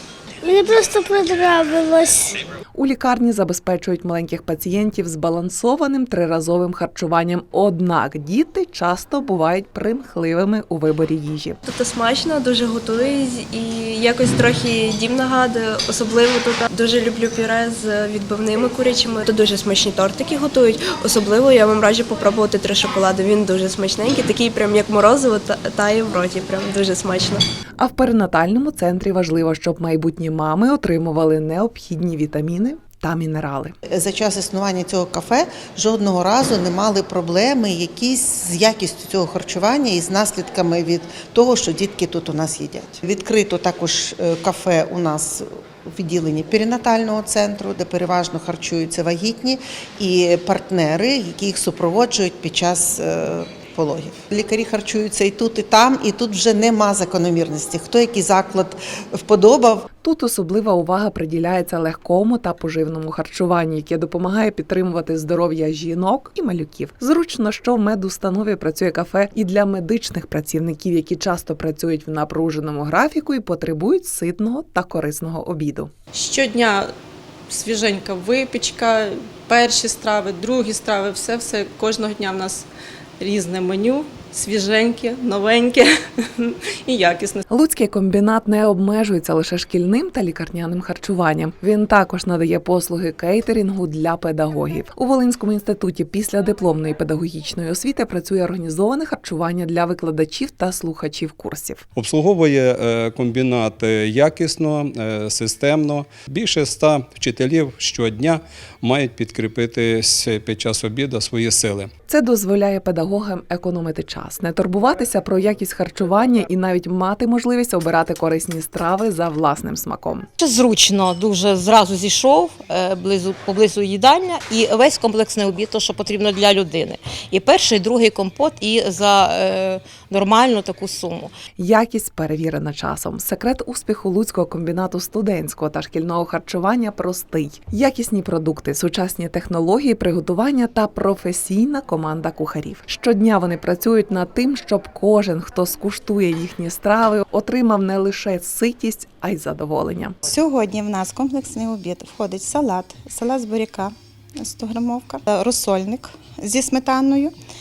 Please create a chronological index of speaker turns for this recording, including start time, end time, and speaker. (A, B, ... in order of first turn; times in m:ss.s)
0:00.4-0:02.4 A
0:02.7-0:11.6 B
0:11.6-0:27.4 C
0:27.8-0:33.7 B
0:33.9-0:59.8 D
1:00.0-1:15.9 B
1:16.1-1:16.9 E
1:17.5-1:22.7 E
1:23.2-1:27.4 E
1:27.5-1:41.8 B
1:42.0-1:51.9 F
1:52.1-2:00.2 B
2:00.4-2:11.3 G
2:11.6-2:30.2 B
2:30.2-2:37.3 H